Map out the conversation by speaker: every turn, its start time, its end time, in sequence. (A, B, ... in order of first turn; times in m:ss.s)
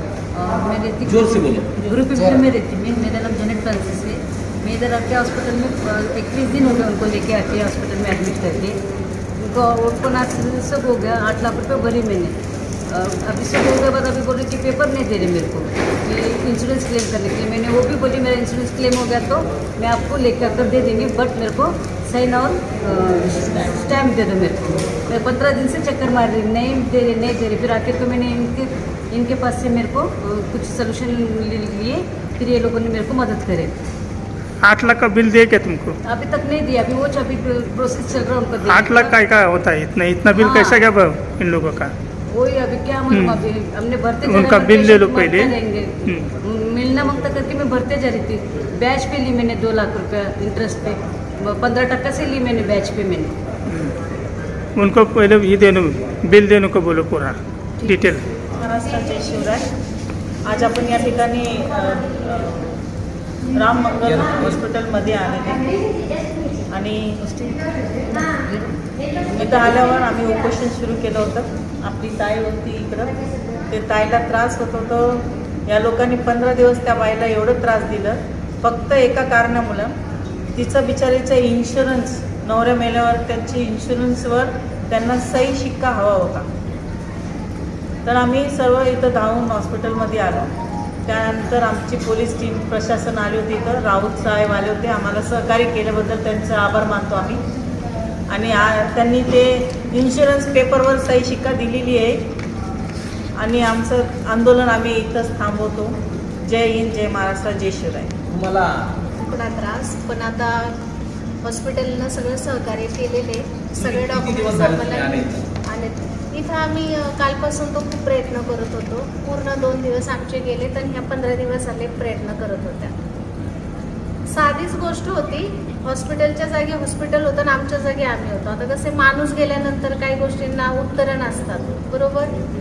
0:00.3-0:08.8 A
0:01.0-0:01.8 B
0:09.4-0:12.4 A
0:12.9-0:33.7 A
0:34.6-0:36.0 C
0:36.0-0:39.2 A
0:38.6-0:41.9 C
0:40.3-0:40.9 A
0:42.3-0:53.3 A
0:43.1-0:43.4 C
0:44.2-0:45.5 C
0:54.8-0:58.2 C
0:58.6-0:59.7 D
1:00.4-1:02.7 D
1:03.5-1:05.7 D
1:04.0-1:04.6 B
1:06.7-1:07.4 D
1:08.1-1:08.8 A
1:09.4-1:13.2 D
1:09.4-1:09.6 A
1:13.7-1:19.9 D
1:20.5-1:26.5 D
1:28.0-1:30.5 D
1:31.0-1:37.4 D
1:38.3-1:42.2 D
1:43.4-1:48.1 D
1:48.3-1:48.9 B
1:49.1-1:50.8 E
1:51.4-2:02.9 E
1:53.8-1:55.5 B
2:04.3-2:12.3 E